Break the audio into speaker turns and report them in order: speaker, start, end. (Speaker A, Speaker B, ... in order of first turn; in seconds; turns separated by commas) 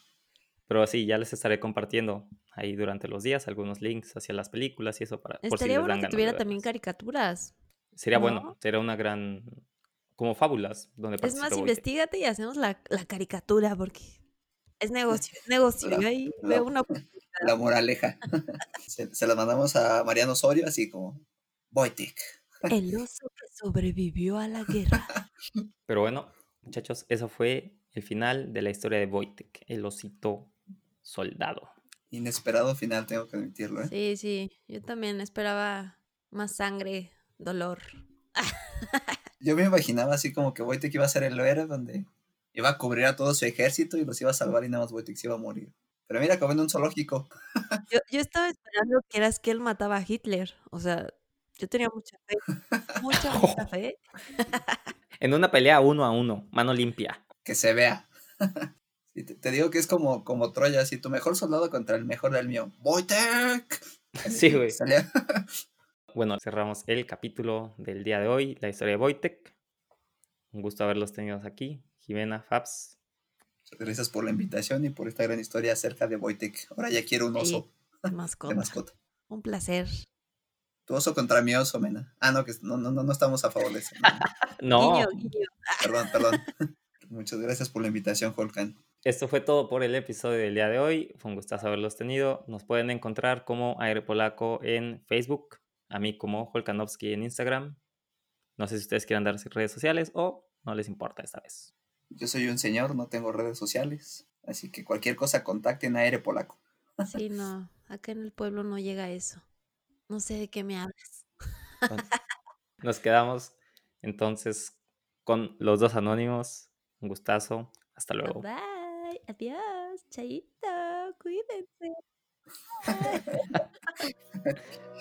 Speaker A: 0.7-6.6, Speaker B: 5.4-7.5, Speaker A: 8.0-9.6, Speaker B: 8.1-8.6, Speaker A: 10.2-11.8, Speaker B: 11.2-14.2, Speaker B: 14.8-17.5, Speaker C: 15.8-16.7, Speaker C: 17.4-22.7, Speaker B: 22.7-25.1, Speaker A: 25.9-30.5, Speaker A: 31.0-31.7, Speaker C: 32.1-33.9, Speaker B: 33.8-39.2, Speaker C: 39.4-47.8, Speaker B: 47.9-54.8, Speaker A: 53.3-53.6, Speaker A: 55.2-57.2, Speaker C: 57.5-65.6, Speaker A: 64.2-64.8, Speaker A: 66.1-69.5, Speaker A: 70.5-73.0, Speaker C: 73.7-77.7, Speaker B: 77.4-78.7, Speaker C: 78.5-78.9, Speaker B: 79.3-80.0, Speaker C: 80.9-84.2, Speaker A: 84.6-85.3, Speaker B: 84.7-86.4, Speaker C: 85.8-86.5, Speaker C: 87.0-88.8, Speaker A: 89.0-97.8, Speaker A: 98.6-101.7, Speaker C: 102.1-107.1, Speaker B: 107.1-109.4, Speaker B: 110.1-111.2, Speaker A: 112.8-118.4, Speaker B: 118.2-122.0, Speaker B: 122.8-123.5